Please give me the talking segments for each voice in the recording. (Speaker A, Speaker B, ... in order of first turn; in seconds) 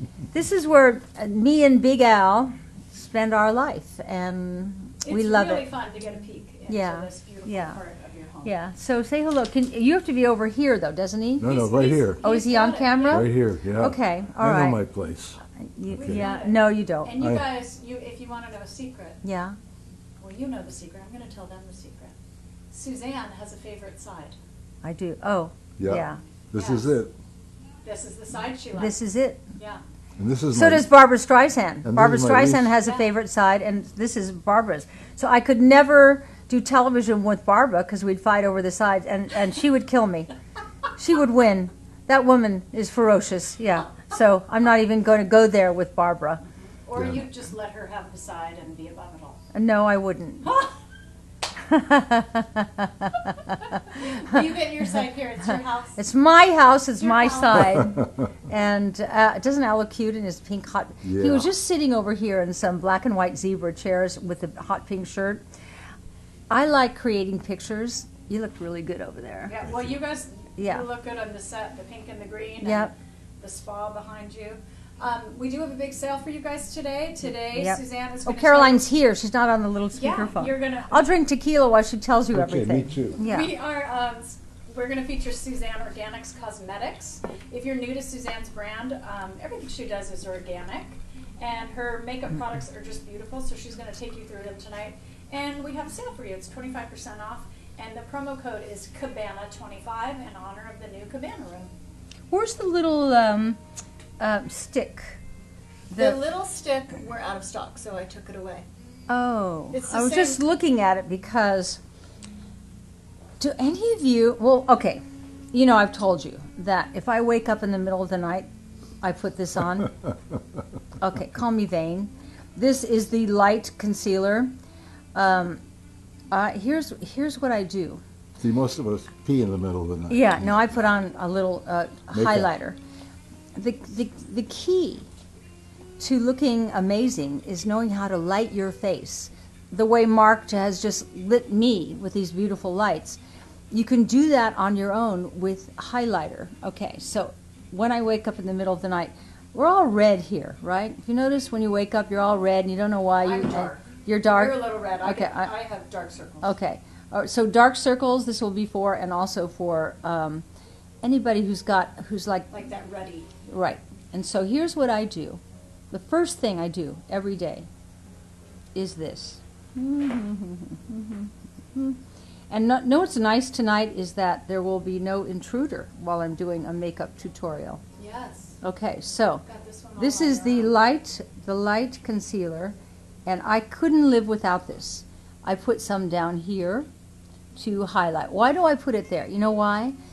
Speaker A: 0.3-5.6, 6.7-7.8, 8.4-11.5, 12.2-14.8, 15.6-17.1, 19.2-19.6, 24.8-26.2, 28.8-29.4, 30.5-40.3, 41.0-46.4, 49.5-50.5, 51.6-54.4, 56.0-65.4, 66.5-69.5, 70.6-70.9, 72.6-72.9, 77.4-83.5, 102.3-103.6, 104.2-105.2, 105.9-106.2, 109.1-111.8, 113.4-115.0, 115.5-118.5, 119.0-119.9, 121.0-124.5, 125.2-125.6, 126.3-128.0, 130.1-132.8, 133.6-135.1, 136.0-143.2, 143.7-155.5, 156.4-160.5, 161.0-162.5, 163.5-167.7, 168.8-172.0, 172.5-177.8, 178.6-179.4, 180.0-186.9, 187.6-190.0
Speaker B: 5.0-8.5, 11.4-13.3, 15.9-19.2, 20.2-22.1, 22.7-24.4, 26.6-26.9, 27.8-29.0, 46.9-49.4, 53.9-56.0, 57.0-57.8, 69.5-78.8, 79.9-81.1, 83.2-101.7, 106.0-108.7, 109.7-110.4, 153.2-156.5, 162.5-163.3, 178.0-178.6, 179.5-180.7
Speaker C: 11.4-12.2, 13.1-15.4, 15.9-16.3, 17.2-17.5, 25.8-27.1, 30.2-30.9, 31.8-32.7, 57.7-58.3, 61.0-61.5, 69.6-70.0, 82.3-83.2, 128.4-130.9, 132.1-132.5